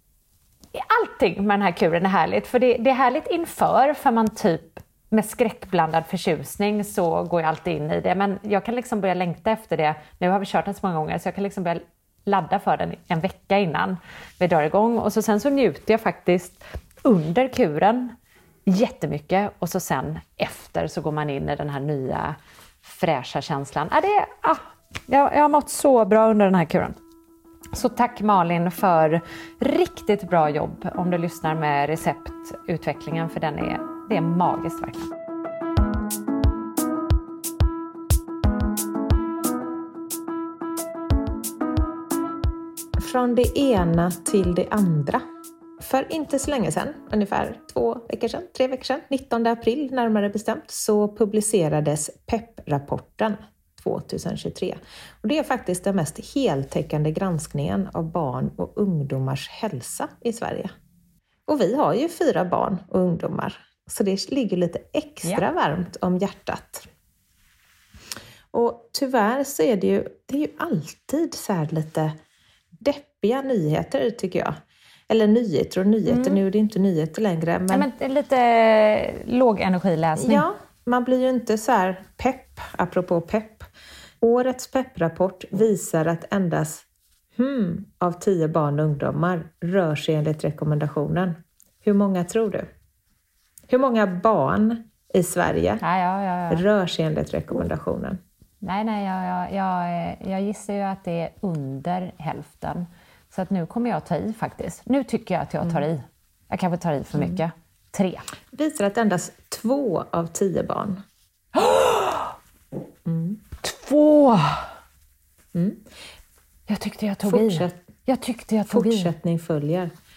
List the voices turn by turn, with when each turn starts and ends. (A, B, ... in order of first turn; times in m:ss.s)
0:00.7-0:18.1 A
0:18.7-0:27.0 A
0:27.7-0:35.1 A
0:43.0-0:45.2 B
0:45.8-1:00.7 B
1:01.5-1:06.8 B
1:08.5-1:12.2 B
1:12.8-1:14.6 B
1:15.1-1:17.9 B
1:16.0-1:16.4 A
1:17.7-1:20.4 A
1:20.2-1:23.6 B
1:24.2-1:26.8 B
1:27.4-1:32.7 B
1:33.7-1:35.8 B
1:35.8-1:36.6 A
1:36.5-1:38.2 B
1:38.6-1:48.2 A
1:48.5-1:51.0 B
1:51.5-1:52.3 A
1:53.0-1:53.4 B
1:53.6-1:54.7 A
1:55.5-1:55.8 B
1:56.7-1:59.1 A
1:57.2-1:57.8 B
1:58.7-1:59.9 B